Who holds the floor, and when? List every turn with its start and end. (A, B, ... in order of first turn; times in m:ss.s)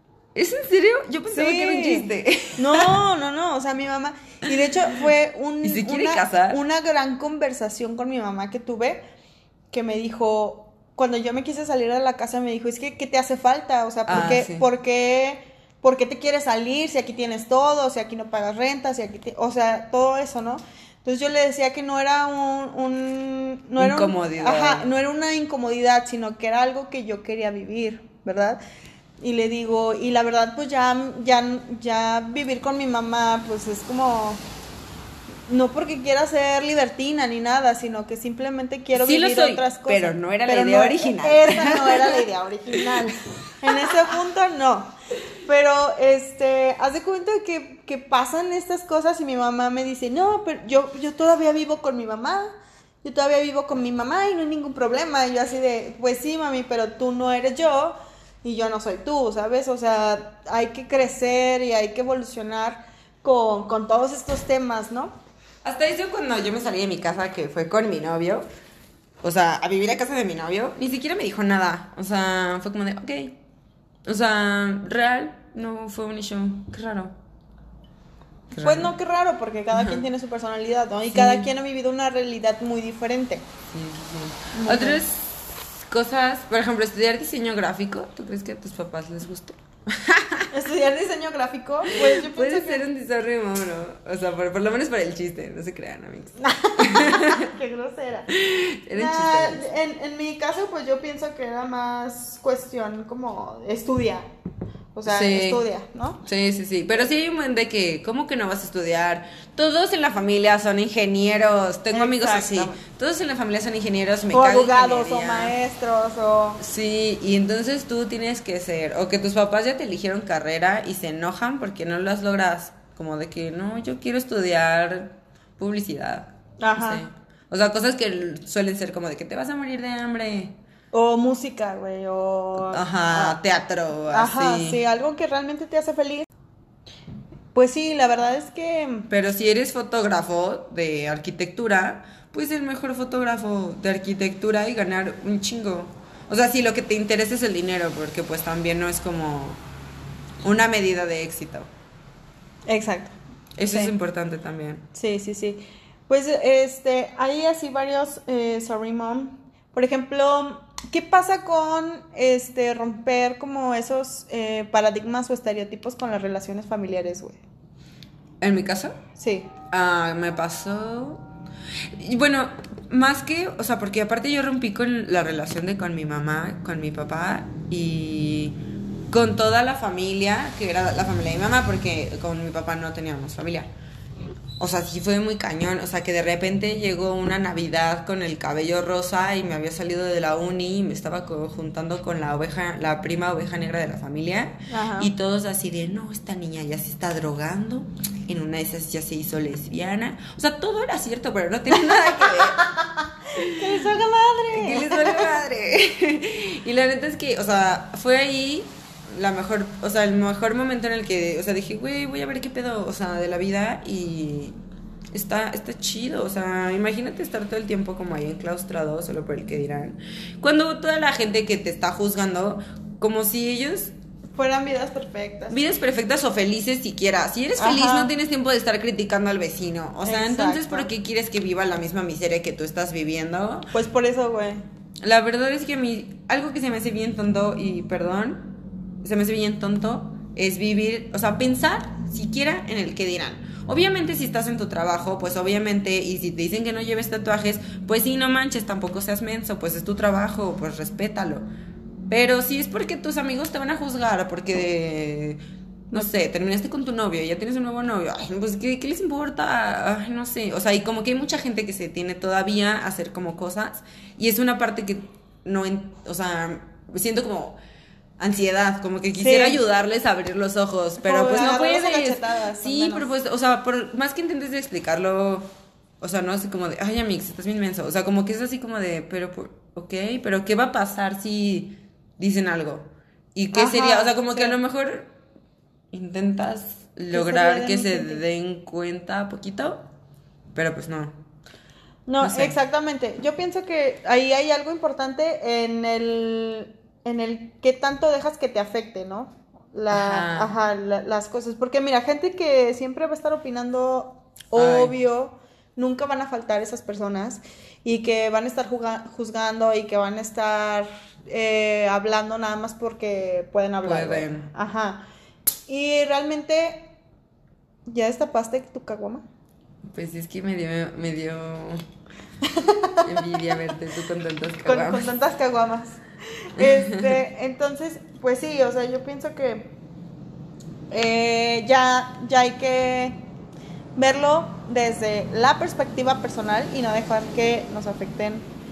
0:00.3-0:02.9 A
0:01.3-0:09.0 B
0:05.6-0:06.6 A
0:09.7-0:28.6 B
0:14.1-0:14.6 A
0:23.8-0:24.9 A
0:29.2-0:34.4 B
0:35.5-0:44.9 B
0:38.9-0:43.1 A
0:43.7-0:44.1 A
0:45.4-0:52.5 B
0:53.0-1:05.1 B
1:05.6-1:08.4 A
1:09.2-1:13.4 A
1:14.0-1:17.1 A
1:18.5-1:18.9 A
1:18.5-1:23.4 B
1:19.7-1:20.0 A
1:21.1-1:21.5 A
1:23.7-1:30.5 A
1:24.5-1:25.0 B
1:30.5-1:32.8 B
1:31.9-1:37.5 A
1:36.4-1:38.3 B
1:38.3-1:39.7 A
1:38.9-1:44.3 B
1:44.9-1:46.2 B
1:45.0-1:45.6 A
1:46.2-1:55.5 A
1:51.9-1:52.8 B
1:54.3-1:56.6 B
1:56.6-2:10.6 A
2:06.6-2:07.0 B
2:10.9-2:13.4 B
2:12.7-2:14.8 A
2:14.1-2:16.3 B
2:17.5-2:19.1 B
2:19.1-2:29.6 A
2:30.4-2:31.7 A
2:32.7-2:33.9 B
2:33.6-2:34.8 A
2:34.9-2:47.4 B
2:48.4-2:48.9 A
2:49.2-2:49.5 B
2:49.7-2:51.2 A
2:52.0-2:58.6 A
2:59.1-3:03.7 A
3:04.6-3:22.6 A
3:14.7-3:15.1 B
3:21.9-3:25.4 B
3:23.3-3:23.9 A
3:24.5-3:34.6 A
3:35.1-3:43.9 A
3:44.3-3:45.6 B
3:45.5-3:53.7 A
3:47.6-3:48.1 B
3:50.0-3:50.9 B
3:53.7-3:54.6 B
3:55.0-3:58.5 A
3:59.0-4:11.4 A
4:12.1-4:27.6 A
4:28.2-4:35.5 A
4:29.2-4:29.6 B
4:31.0-4:33.1 B
4:36.0-4:45.1 A
4:43.5-4:44.6 B
4:45.9-4:49.9 A
4:47.1-4:48.2 B
4:50.5-4:51.2 A
4:52.1-5:15.0 B
4:52.2-4:52.6 A
4:59.9-5:00.5 A
5:04.5-5:04.9 A
5:13.8-5:14.5 A
5:15.7-5:16.9 B
5:17.9-5:19.2 B
5:19.8-5:21.8 A
5:22.4-5:23.3 B
5:23.0-5:25.1 A
5:24.6-5:29.7 B
5:26.6-5:27.2 A
5:30.9-5:33.2 B
5:34.0-5:38.5 B